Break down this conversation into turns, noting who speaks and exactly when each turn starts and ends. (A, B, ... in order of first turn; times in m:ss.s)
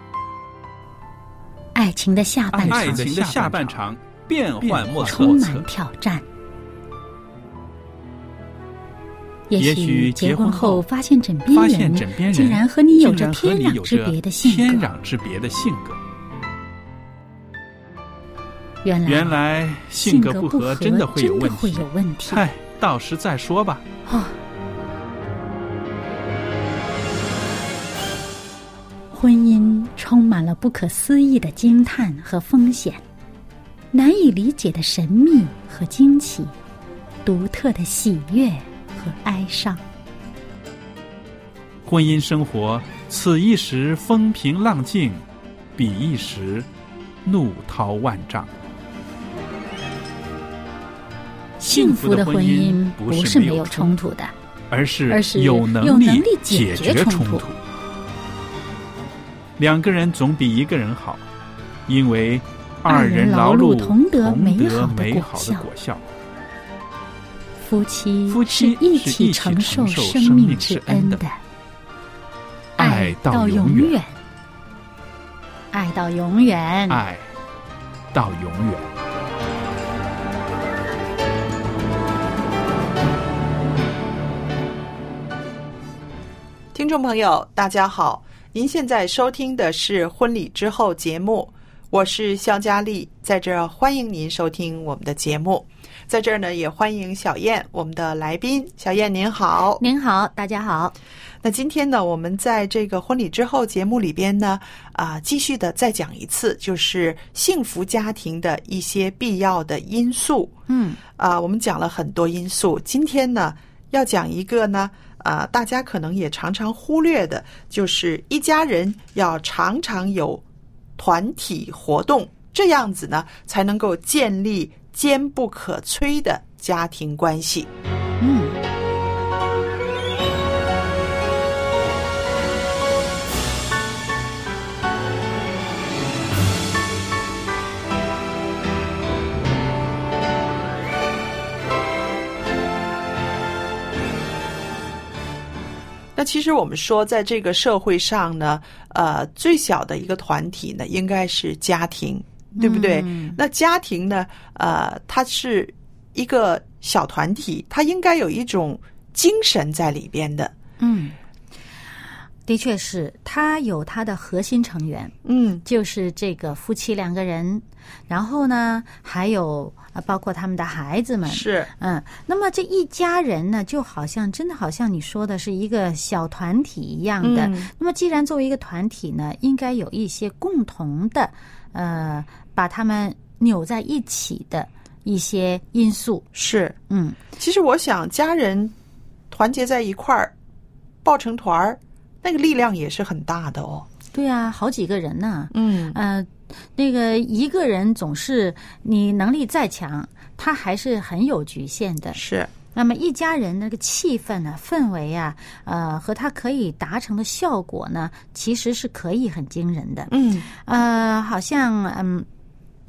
0:01.7-0:03.8 A
0:02.5-0:05.7 B
0:05.0-0:06.2 A
0:09.5-0:14.9 A
0:09.6-0:10.8 B
0:11.5-0:16.0 B
0:18.8-0:19.4 A
0:19.0-0:23.8 B
0:20.0-0:22.4 A
0:24.1-0:24.3 A
0:29.1-0:33.0 A
0:33.9-0:36.5 A
0:37.2-0:39.8 A
0:41.8-0:45.2 B
0:45.8-0:46.7 B
0:47.2-0:48.5 B
0:51.6-0:54.3 A
0:51.7-0:54.0 B
0:54.7-0:57.6 B
0:55.1-0:57.5 A
0:59.6-1:01.2 B
1:01.9-1:06.0 B
1:02.9-1:05.7 A
1:07.6-1:11.4 A
1:08.3-1:11.2 B
1:12.8-1:14.0 B
1:12.8-1:14.1 A
1:15.7-1:17.0 A
1:16.9-1:17.3 B
1:18.1-1:18.9 B
1:26.7-1:39.8 C
1:39.8-1:40.9 A
1:41.4-1:50.5 C
1:50.7-1:51.0 A
1:51.2-2:00.4 C
2:01.0-2:07.7 C
2:08.2-2:08.6 A
2:26.2-2:40.5 C
2:32.6-2:33.4 A
2:40.8-2:41.1 A
2:42.5-2:45.1 A
2:45.2-2:45.6 C
2:45.6-3:06.2 A
2:51.2-2:51.7 C
2:57.2-2:57.7 C
3:06.3-3:06.8 C
3:06.9-3:07.2 A
3:07.4-3:08.7 C
3:09.3-3:10.3 C
3:11.0-3:13.9 C
3:14.1-3:22.2 A
3:15.5-3:16.0 C
3:22.1-3:22.5 C
3:22.7-3:32.2 A
3:30.1-3:30.4 C